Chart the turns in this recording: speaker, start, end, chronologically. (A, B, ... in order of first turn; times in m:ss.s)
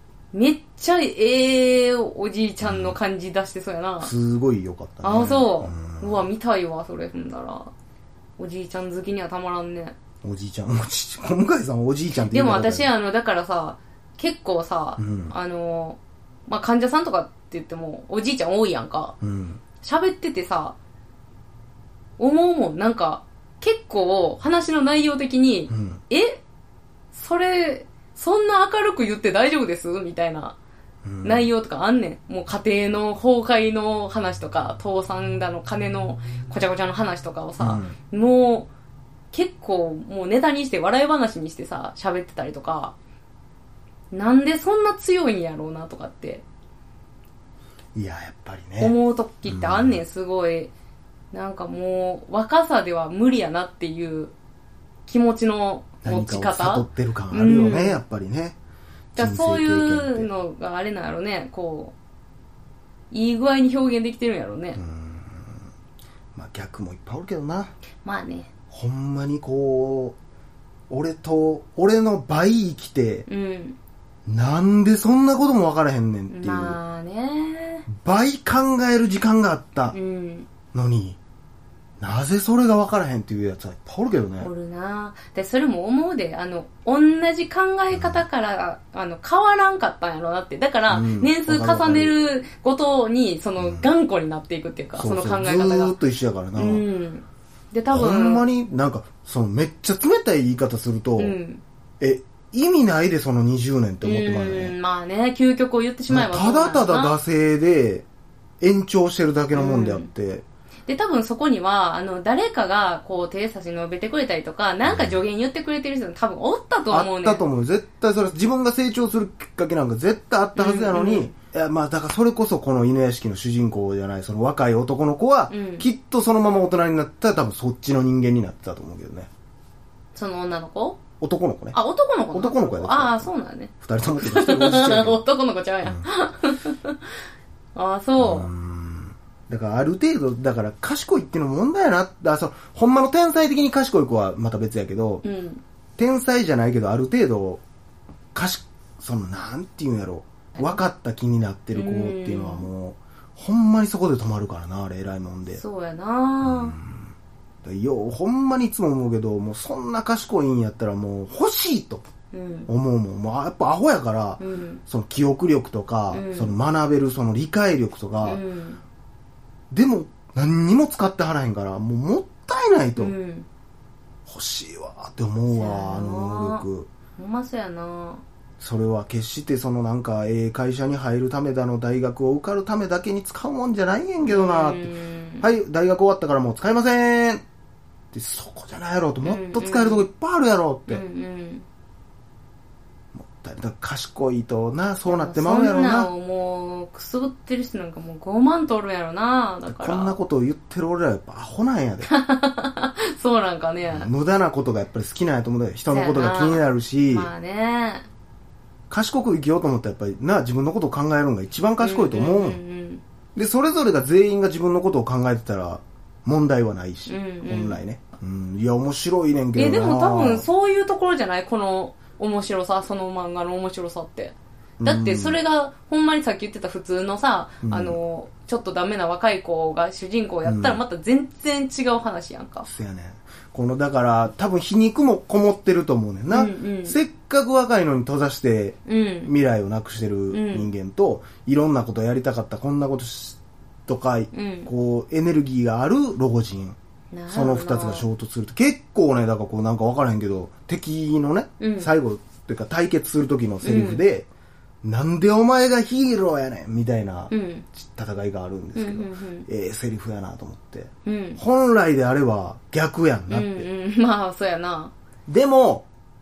0:00.3-0:04.1 A
0:02.6-0:03.0 B
0:04.0-0:06.3 B
0:05.0-0:07.7 A
0:08.4-0:10.0 A
0:10.2-0:12.9 B
0:12.1-0:19.2 A
0:15.0-0:15.3 B
0:19.2-0:19.6 B
0:19.8-0:20.8 A
0:22.2-0:26.4 A
0:25.7-0:26.0 B
0:27.1-0:30.6 A
0:31.0-0:31.5 B
0:31.2-0:38.7 A
0:37.6-0:38.0 B
0:39.3-0:43.0 A
0:44.1-0:46.4 A
0:48.0-0:50.0 B
0:48.8-0:50.7 A
0:51.3-0:54.3 A
0:55.1-0:58.0 A
0:56.0-0:58.6 B
0:59.2-1:00.3 B
0:59.2-1:01.9 A
1:03.1-1:04.8 A
1:04.8-1:05.7 B
1:06.3-1:07.7 B
1:08.0-1:08.5 A
1:08.7-1:10.2 B
1:10.9-1:13.3 B
1:13.3-1:13.8 A
1:14.3-1:16.8 B
1:16.3-1:17.9 A
1:18.0-1:20.0 B
1:19.9-1:20.5 A
1:20.7-1:21.2 B
1:22.0-1:24.5 B
1:24.4-1:36.0 A
1:27.9-1:28.2 B
1:30.9-1:32.2 B
1:33.6-1:33.9 B
1:35.0-1:36.9 B
1:36.6-1:38.5 A
1:37.9-1:41.4 B
1:41.2-1:41.6 A
1:42.0-1:44.8 B
1:44.0-1:47.2 A
1:46.1-1:48.1 B
1:48.6-1:50.4 B
1:49.5-1:50.1 A
1:50.9-1:57.4 A
1:54.8-1:55.2 B
1:56.9-2:09.3 B
2:00.6-2:01.3 A
2:05.5-2:05.9 A
2:10.2-2:11.0 A
2:11.2-2:11.8 B
2:11.7-2:17.2 A
2:12.3-2:13.3 B
2:13.8-2:15.2 B
2:17.8-2:18.5 A
2:18.2-2:25.2 B
2:25.2-2:25.6 A
2:26.0-2:27.6 B
2:28.3-2:35.6 B
2:30.6-2:30.8 A
2:31.7-2:32.7 A
2:35.5-2:36.8 A
2:36.4-2:37.1 B
2:37.6-2:42.1 B
2:42.3-2:42.7 A
2:42.7-2:48.4 B
2:44.4-2:44.8 A
2:46.1-2:46.6 A
2:48.2-2:48.8 A
2:49.7-2:53.1 B
2:53.0-2:53.5 A
2:54.3-2:56.9 B
2:55.5-2:56.6 A
2:57.2-2:58.2 A
2:58.6-3:07.4 B
3:04.2-3:05.5 A
3:08.1-3:11.0 B
3:09.2-3:10.1 A
3:10.9-3:11.6 A
3:13.1-3:16.1 B
3:15.1-3:20.2 A
3:19.7-3:22.1 B
3:22.1-3:24.1 A
3:23.9-3:27.3 B
3:25.9-3:28.1 A
3:28.9-3:32.6 B
3:31.8-3:33.0 A
3:33.4-3:40.5 B
3:37.1-3:37.8 A
3:39.6-3:52.7 A
3:44.8-3:45.4 B
3:47.6-3:48.0 B
3:50.4-3:50.8 B
3:52.6-4:06.8 B
3:56.3-3:57.0 A
3:58.9-3:59.3 A
4:00.3-4:00.7 A
4:04.3-4:04.7 A
4:07.1-4:08.1 A
4:07.3-4:14.3 B
4:11.6-4:11.9 A
4:13.6-4:14.0 A
4:14.8-4:23.7 B
4:17.3-4:17.7 A
4:18.8-4:19.5 A
4:21.0-4:21.4 A
4:23.3-4:24.9 A
4:25.3-4:25.9 B